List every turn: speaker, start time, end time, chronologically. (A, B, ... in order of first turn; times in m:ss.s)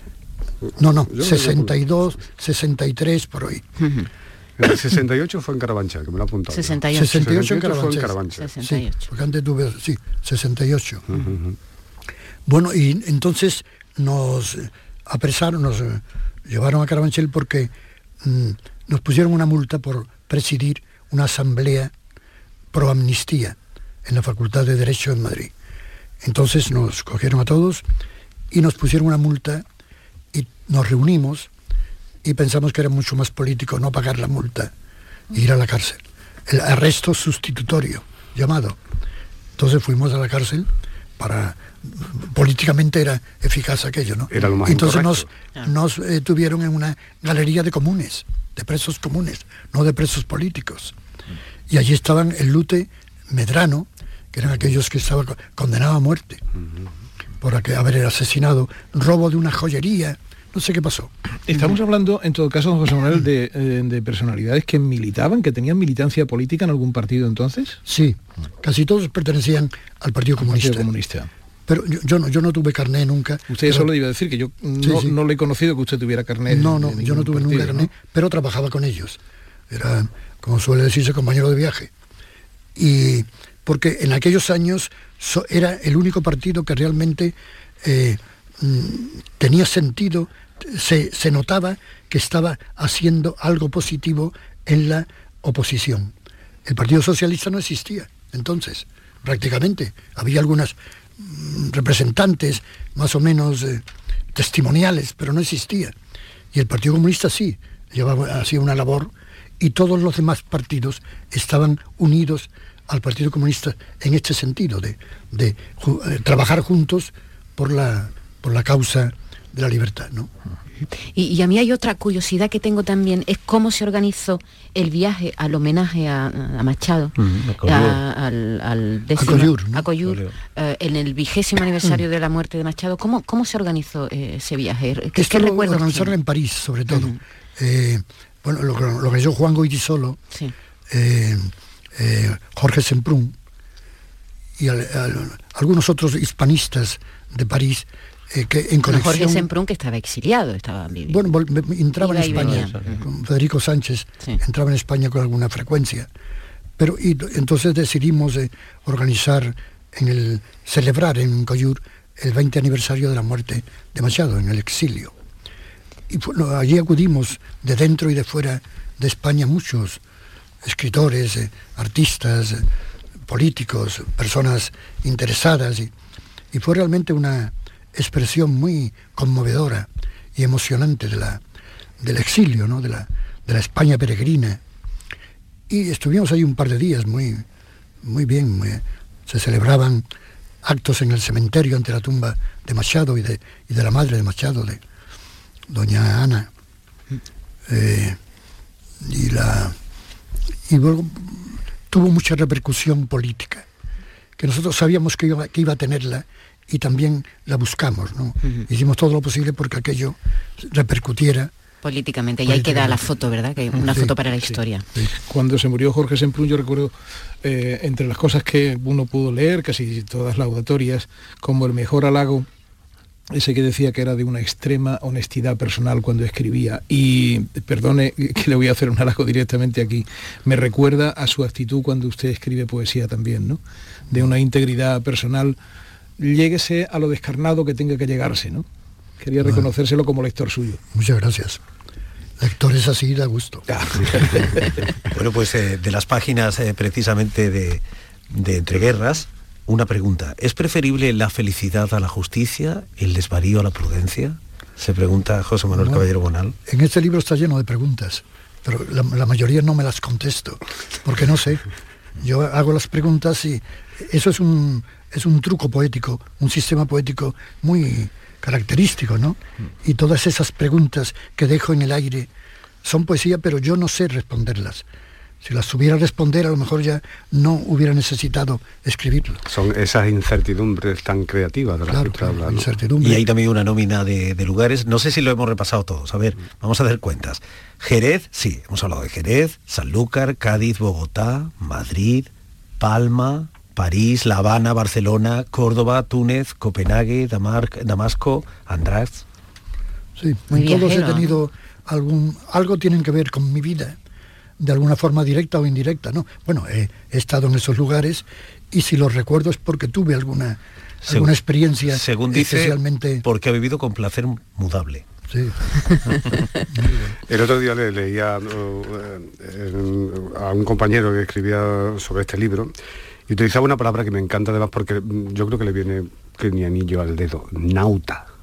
0:00.8-0:03.6 A
0:01.1-0:01.8 B
0:03.8-0:04.1 C
0:04.6-0:08.5 B
0:06.5-0:07.3 C
0:06.9-0:11.1 A
0:08.3-0:09.1 C
0:11.1-0:11.6 B
0:12.5-0:21.9 A
0:22.7-0:25.5 A
0:26.2-0:27.8 A
0:28.5-0:29.6 A
0:30.3-0:31.5 A
0:32.2-0:34.7 A
0:35.3-0:38.8 A
0:39.6-0:50.9 A
0:44.3-0:45.2 B
0:51.7-0:56.4 A
0:57.4-1:01.1 A
1:01.5-1:07.8 D
1:07.8-1:10.9 A
1:10.4-1:11.3 D
1:11.7-1:13.9 A
1:13.5-1:17.9 D
1:14.8-1:15.2 A
1:16.5-1:21.9 A
1:22.7-1:36.1 A
1:36.6-1:45.9 A
1:46.5-2:00.3 A
2:01.1-2:16.1 C
2:07.2-2:08.0 E
2:09.2-2:09.9 A
2:10.0-2:10.3 E
2:15.1-2:20.2 A
2:16.9-2:17.2 C
2:20.9-2:23.3 A
2:24.6-2:29.5 A
2:28.8-2:31.3 C
2:31.1-2:36.1 A
2:32.0-2:33.0 C
2:32.3-2:32.9 E
2:36.8-2:45.1 A
2:46.1-2:50.0 A
2:50.6-2:52.6 A
2:53.3-2:55.9 A
2:56.5-3:01.4 A
3:02.0-3:04.6 A
3:05.7-3:07.4 A
3:08.0-3:10.0 A
3:10.6-3:14.8 A
3:15.7-3:16.5 A
3:17.7-3:18.2 A
3:19.0-3:19.8 A
3:20.7-3:23.6 A
3:24.4-3:31.5 A
3:31.8-3:34.8 C
3:32.4-3:33.0 A
3:33.8-3:34.1 A
3:35.1-3:42.5 D
3:43.3-3:55.6 D
3:56.2-3:58.6 D
3:59.2-4:00.8 D
3:59.4-3:59.7 A
4:00.9-4:01.6 A
4:02.4-4:03.6 A
4:03.7-4:04.9 D
4:05.1-4:16.5 E
4:15.7-4:16.0 A
4:16.6-4:21.6 A
4:22.2-4:32.3 A
4:32.8-4:34.8 A
4:35.4-4:39.4 A
4:39.4-4:42.7 B
4:41.9-4:43.2 A
4:43.0-4:52.3 E
4:52.8-4:59.2 E
5:00.2-5:04.0 A
5:00.5-5:01.3 C
5:04.6-5:13.2 A
5:11.0-5:11.3 E
5:11.9-5:15.0 E
5:15.3-5:16.0 A
5:16.7-5:17.1 A
5:17.3-5:22.7 B
5:23.3-5:28.3 B